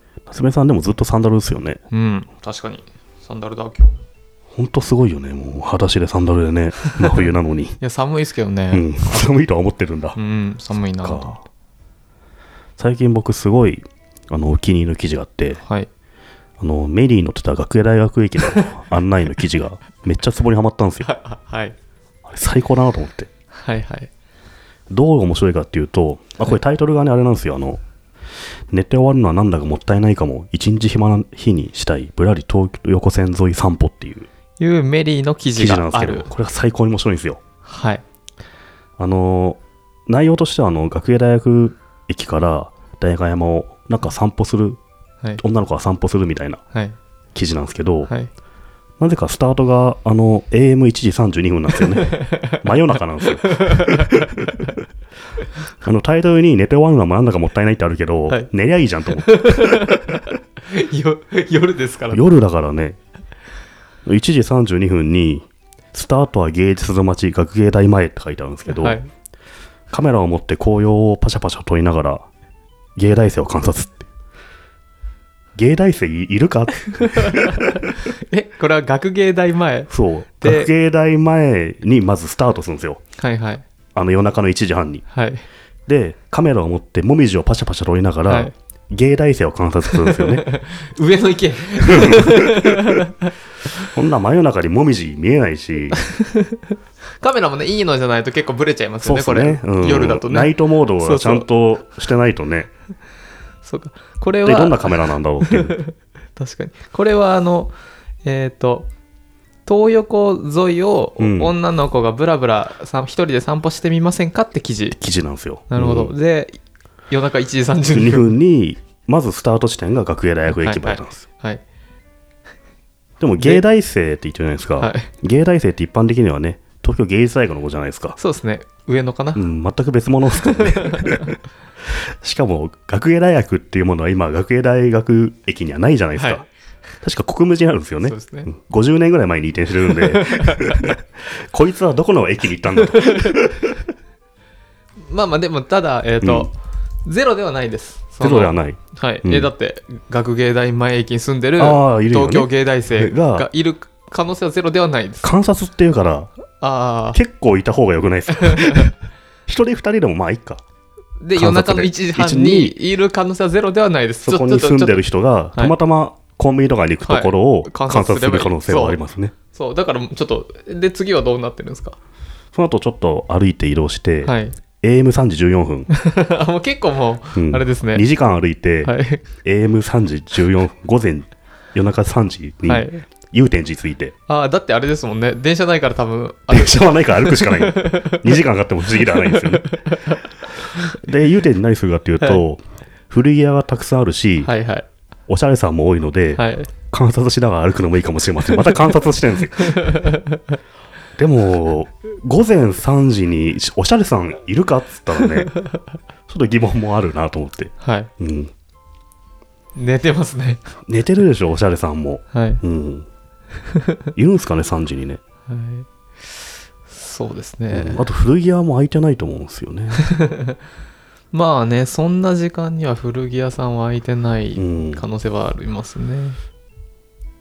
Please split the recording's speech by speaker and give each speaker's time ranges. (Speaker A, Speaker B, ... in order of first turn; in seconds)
Speaker A: 0.3-1.8, 4.5-7.8, 8.7-10.2, 11.0-11.4, 12.8-15.6, 16.6-21.1, 22.2-23.3, 24.9-27.8, 28.7-34.3, 35.6-37.4, 39.0-44.8, 45.4-46.6, 47.4-48.1, 49.0-54.7, 55.8-60.1, 62.1-63.0, 64.0-69.0, 69.9-72.3, 73.0-74.1, 75.6-78.0, 79.9-83.0, 84.0-85.0, 85.9-90.5, 91.8-92.9, 93.9-96.0, 99.0-102.7, 104.4-105.8, 111.2-111.5, 115.0-116.2, 117.9-121.3, 123.2-128.2, 129.3-131.3, 131.9-136.5, 137.0-143.8, 146.2-146.5, 148.2-149.5, 151.6-153.5, 155.2-156.3, 157.1-160.6, 161.3-162.8, 164.2-169.3, 172.5-175.9, 177.4-184.1, 186.5-189.8, 190.8-194.5, 195.3-200.1, 201.2-205.6, 206.3-208.5, 210.9-213.1, 214.2-215.2, 217.7-220.1, 224.6-225.0
Speaker B: 1.9-4.0, 7.8-8.9, 10.2-11.4, 15.6-15.9, 21.0-21.8, 23.5-24.1, 34.6-36.3, 37.7-38.0, 52.0-52.6, 53.4-54.1, 59.2-62.2, 68.7-69.1, 77.3-77.6, 78.1-79.9, 80.4-80.7, 83.2-83.6, 85.1-85.5, 88.3-88.5, 89.9-93.3, 96.0-101.5, 103.6-108.9, 109.7-115.0, 115.7-116.6, 117.1-118.3, 120.5-121.6, 123.4-123.6, 124.8-125.1, 128.2-129.4, 130.4-131.3, 136.2-136.4, 138.0-138.5, 140.0-140.8, 143.0-143.3, 145.1-155.3, 156.6-157.2, 158.4-158.9, 161.2-165.0, 167.1-169.0, 169.5-172.0, 174.2-174.6, 175.9-178.1, 178.8-179.2, 182.7-183.1, 184.3-190.3, 194.4-194.9, 196.4-196.7, 199.6-200.6, 207.8-208.1, 209.8-210.7, 212.3-212.6, 215.5-215.9, 216.9-218.0, 220.0-220.6, 221.3-226.4